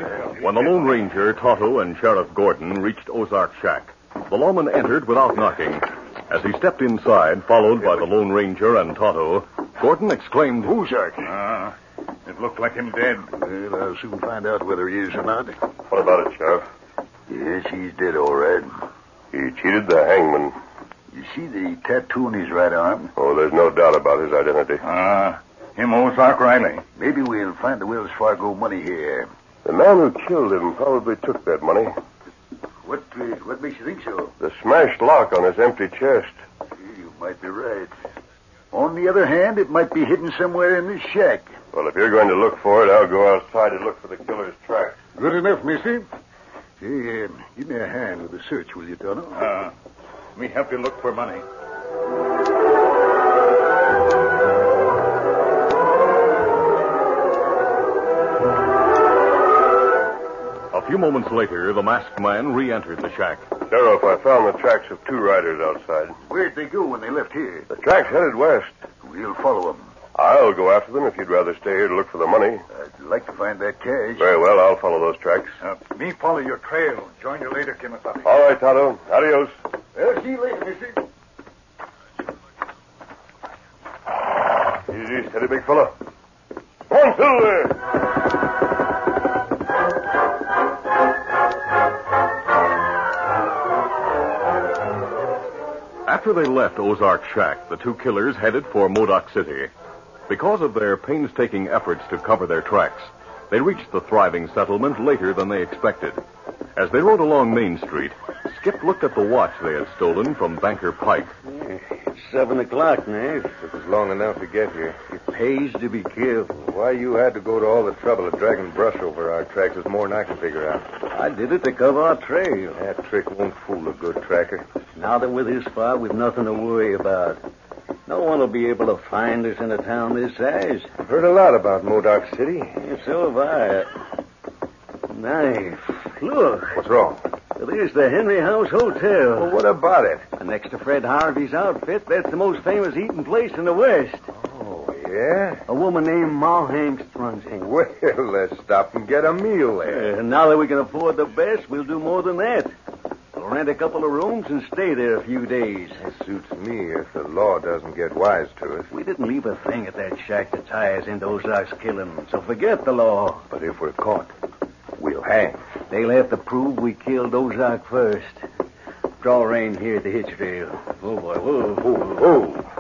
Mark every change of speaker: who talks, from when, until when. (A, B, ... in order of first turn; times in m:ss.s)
0:00.4-0:10.7 A
0:10.6-0:11.3 B
0:11.2-0:11.7 C
0:12.3-0:13.3 C
0:13.3-0:15.6 B
0:15.9-0:16.7 D
0:17.3-0:18.7 B
0:19.3-0:20.6 D
0:21.1-0:23.1 B
0:23.2-0:24.8 D
0:24.8-0:26.8 C
0:26.9-0:29.3 B
0:29.6-0:31.9 D
0:32.8-0:34.3 B
0:34.4-0:36.3 D
0:36.8-0:37.9 B
0:38.7-0:41.5 B
0:41.7-0:45.0 D
0:45.2-0:46.1 B
0:46.8-0:49.5 B
0:49.3-0:49.7 C
0:50.4-0:51.4 C
1:00.7-1:03.4 A
1:03.7-1:06.2 D
1:06.3-1:07.7 B
1:07.7-1:08.7 D
1:09.0-1:09.9 B
1:10.2-1:12.6 D
1:12.7-1:14.3 B
1:14.2-1:15.6 D
1:15.6-1:18.3 C
1:18.2-1:19.5 D
1:20.0-1:21.0 B
1:24.9-1:25.9 D
1:26.9-1:27.8 D
1:36.1-1:39.7 A
1:40.3-1:46.2 A
1:46.8-1:51.4 A
1:51.5-1:53.5 E
1:53.6-1:55.0 F
1:55.1-1:56.5 E
1:56.5-2:00.9 F
2:01.1-2:02.8 E
2:02.8-2:04.6 F
2:05.0-2:07.4 E
2:08.1-2:10.9 E
2:11.0-2:12.8 F
2:12.8-2:13.9 E
2:15.1-2:16.8 E
2:16.8-2:17.2 F
2:17.6-2:19.5 E
2:19.4-2:20.3 F
2:20.3-2:24.3 E
2:24.3-2:25.6 F
2:25.7-2:27.7 E
2:27.6-2:30.1 F
2:29.8-2:32.7 E
2:33.4-2:36.0 E
2:36.0-2:38.9 F
2:38.9-2:43.4 E
2:43.5-2:44.3 F
2:45.0-2:45.6 F
2:45.9-2:48.4 E
2:49.2-2:52.3 E
2:52.0-2:52.6 F